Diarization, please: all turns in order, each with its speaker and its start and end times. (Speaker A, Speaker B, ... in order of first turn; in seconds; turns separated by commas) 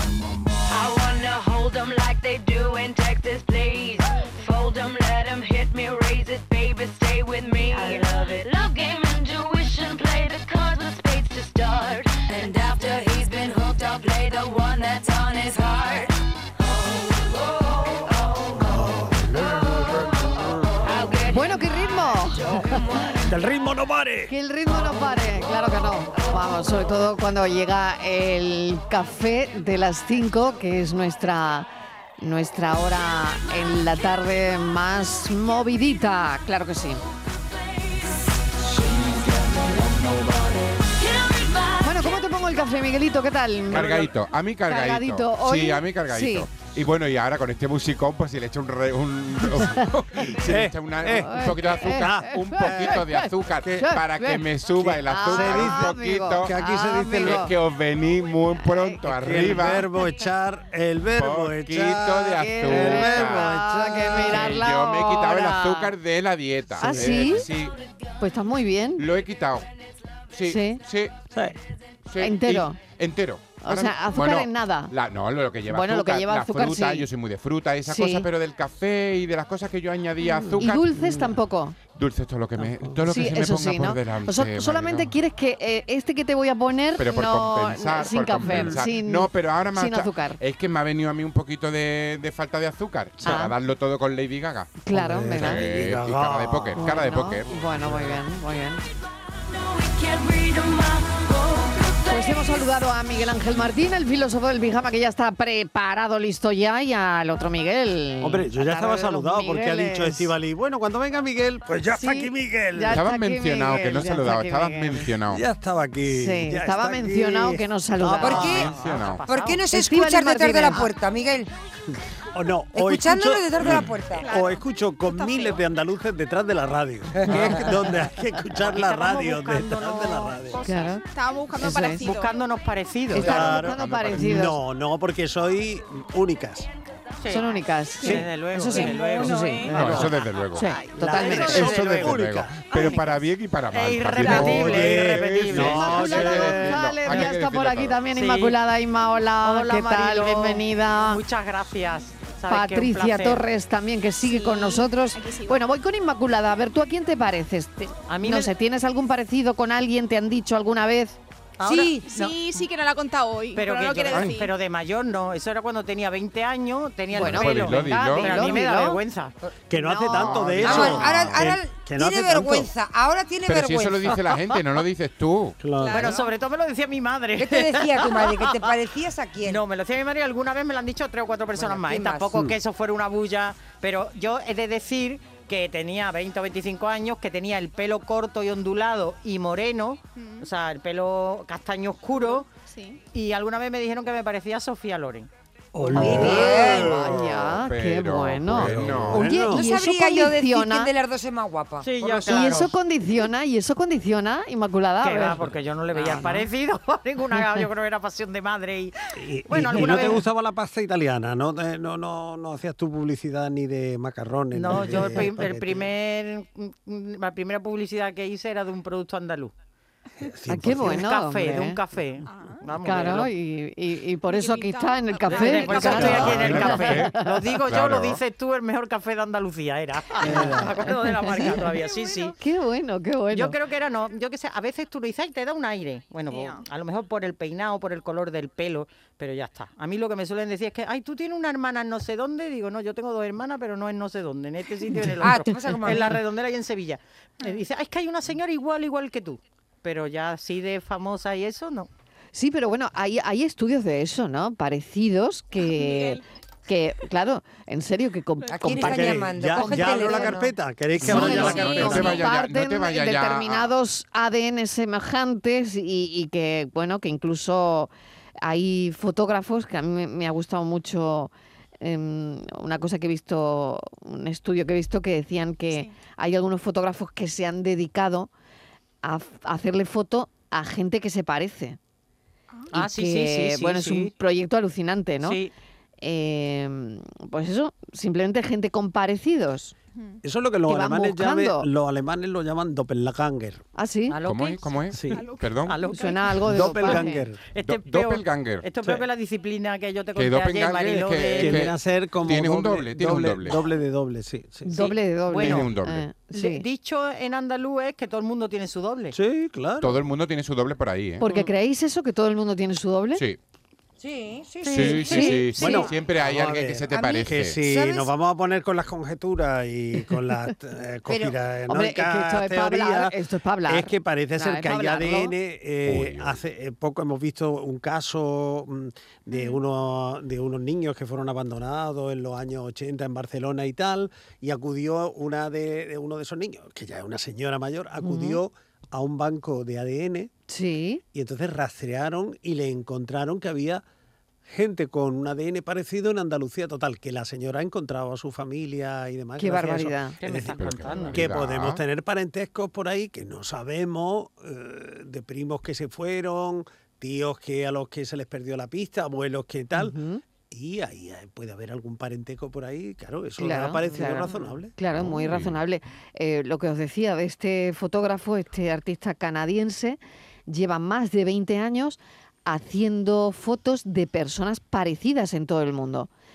Speaker A: 0.7-16.2, Speaker A: 16.9-18.6, Speaker B: 18.7-19.9, Speaker B: 20.4-20.7, Speaker A: 20.8-21.4, Speaker C: 21.3-23.1, Speaker B: 22.4-24.3, Speaker C: 24.3-31.7, Speaker C: 32.2-37.0, Speaker A: 38.9-40.2, Speaker A: 40.8-41.9, Speaker C: 41.8-44.1, Speaker D: 43.7-56.5, Speaker C: 44.7-46.5, Speaker C: 49.6-49.9, Speaker B: 50.4-53.1, Speaker C: 51.1-54.5, Speaker B: 53.6-53.9, Speaker B: 54.8-57.5, Speaker C: 55.0-57.5, Speaker D: 57.2-59.9, Speaker C: 58.6-59.0, Speaker B: 59.1-64.6, Speaker D: 61.1-63.7, Speaker C: 62.3-65.8, Speaker D: 64.2-67.8, Speaker B: 66.8-67.3, Speaker C: 66.8-67.5, Speaker C: 68.2-69.1, Speaker D: 69.0-69.7, Speaker D: 70.3-71.2, Speaker C: 70.5-70.8, Speaker B: 71.3-71.6, Speaker D: 72.1-81.0, Speaker C: 72.2-72.8, Speaker C: 73.6-74.9, Speaker C: 75.7-77.1, Speaker C: 77.8-78.3, Speaker B: 80.4-81.3, Speaker C: 80.6-81.8, Speaker D: 81.9-85.2, Speaker B: 82.6-83.0, Speaker C: 83.0-90.4, Speaker D: 87.0-98.0, Speaker B: 88.4-88.8, Speaker C: 93.2-93.5, Speaker C: 94.8-95.7, Speaker B: 94.9-96.8, Speaker C: 96.7-98.8, Speaker B: 97.9-98.2, Speaker A: 99.4-102.4, Speaker C: 102.0-110.3, Speaker B: 108.2-113.0, Speaker C: 112.0-115.1, Speaker D: 112.9-115.4, Speaker B: 115.3-118.9, Speaker C: 116.2-118.6, Speaker E: 118.2-118.7, Speaker D: 118.4-119.2, Speaker F: 118.6-119.7, Speaker E: 119.3-121.5, Speaker C: 119.7-120.9, Speaker B: 122.3-130.6, Speaker E: 122.7-124.3, Speaker G: 124.1-125.6, Speaker F: 128.6-130.5, Speaker G: 130.5-132.4, Speaker C: 130.6-131.0, Speaker C: 131.6-132.1, Speaker F: 131.8-133.6, Speaker C: 133.1-134.6, Speaker B: 133.1-136.7, Speaker D: 133.6-134.4, Speaker F: 137.2-137.5, Speaker C: 137.3-141.9, Speaker F: 138.0-139.6, Speaker G: 138.8-139.9, Speaker D: 139.7-148.1, Speaker B: 141.0-143.0, Speaker F: 141.1-142.2, Speaker F: 143.7-146.1, Speaker B: 144.1-147.2, Speaker C: 145.6-151.2, Speaker F: 148.2-148.6, Speaker F: 149.4-153.4, Speaker C: 152.5-161.2, Speaker G: 154.2-155.6, Speaker F: 158.1-158.5, Speaker F: 161.6-162.6, Speaker G: 161.6-164.5, Speaker F: 163.5-169.4, Speaker D: 167.1-168.3, Speaker C: 167.2-169.0, Speaker B: 169.7-172.7, Speaker C: 169.8-170.9, Speaker D: 170.2-171.4, Speaker E: 170.6-174.2, Speaker D: 173.5-175.6, Speaker B: 175.6-176.2, Speaker E: 175.8-176.3, Speaker F: 175.9-178.5, Speaker E: 177.4-179.6, Speaker F: 179.4-192.5, Speaker E: 181.6-182.4, Speaker G: 190.2-190.5, Speaker G: 192.7-193.0, Speaker F: 193.1-195.3, Speaker B: 195.7-196.8, Speaker C: 195.9-200.9, Speaker E: 195.9-197.0, Speaker D: 196.6-199.3, Speaker B: 198.5-199.7, Speaker E: 199.4-202.7, Speaker F: 201.8-202.7, Speaker C: 202.3-206.4, Speaker F: 205.0-208.9, Speaker B: 206.0-206.3, Speaker B: 209.2-215.9, Speaker F: 209.5-210.2, Speaker F: 214.5-219.5, Speaker B: 220.2-221.1, Speaker C: 220.5-221.8, Speaker F: 220.8-223.3, Speaker G: 222.3-222.6, Speaker C: 222.8-227.3, Speaker G: 224.3-226.2, Speaker F: 225.3-232.3, Speaker B: 225.8-226.5, Speaker D: 226.3-228.2, Speaker B: 230.2-230.8, Speaker C: 230.8-231.6, Speaker G: 231.8-232.3, Speaker C: 232.4-233.6, Speaker F: 233.3-251.9, Speaker G: 236.3-236.6, Speaker E: 245.2-246.2, Speaker C: 252.3-260.4, Speaker G: 255.6-256.2, Speaker E: 258.5-262.1, Speaker B: 258.8-262.2, Speaker C: 261.0-278.3, Speaker D: 261.1-263.7, Speaker G: 261.6-262.0, Speaker C: 279.0-281.8, Speaker C: 282.7-285.4, Speaker F: 282.7-284.1, Speaker F: 285.2-285.5, Speaker C: 286.0-289.8, Speaker B: 290.2-293.6, Speaker C: 290.7-291.7, Speaker C: 293.8-294.2, Speaker F: 294.1-301.7, Speaker D: 294.2-295.8, Speaker B: 294.9-295.2, Speaker G: 295.1-296.2, Speaker C: 295.9-297.2, Speaker B: 296.4-297.5, Speaker D: 297.6-298.7, Speaker D: 300.2-303.7, Speaker B: 300.9-304.9, Speaker C: 304.7-306.6, Speaker F: 304.8-305.7, Speaker D: 305.4-306.1, Speaker F: 306.3-309.2, Speaker B: 309.1-310.1, Speaker D: 309.8-311.3, Speaker C: 311.2-313.2, Speaker E: 314.0-315.5, Speaker F: 314.6-315.8, Speaker D: 314.7-317.6, Speaker C: 314.8-315.5, Speaker B: 315.6-323.1, Speaker E: 317.0-318.1, Speaker E: 321.1-321.4, Speaker C: 321.7-325.3, Speaker B: 323.7-340.3, Speaker D: 325.9-326.4, Speaker G: 329.3-329.6, Speaker C: 338.0-338.4, Speaker C: 340.5-341.0, Speaker B: 341.1-343.8, Speaker B: 344.5-360.0, Speaker C: 349.4-350.2, Speaker F: 350.2-351.3, Speaker D: 350.5-351.8, Speaker C: 359.8-360.2, Speaker B: 360.5-364.8, Speaker C: 363.4-376.1, Speaker D: 364.9-365.6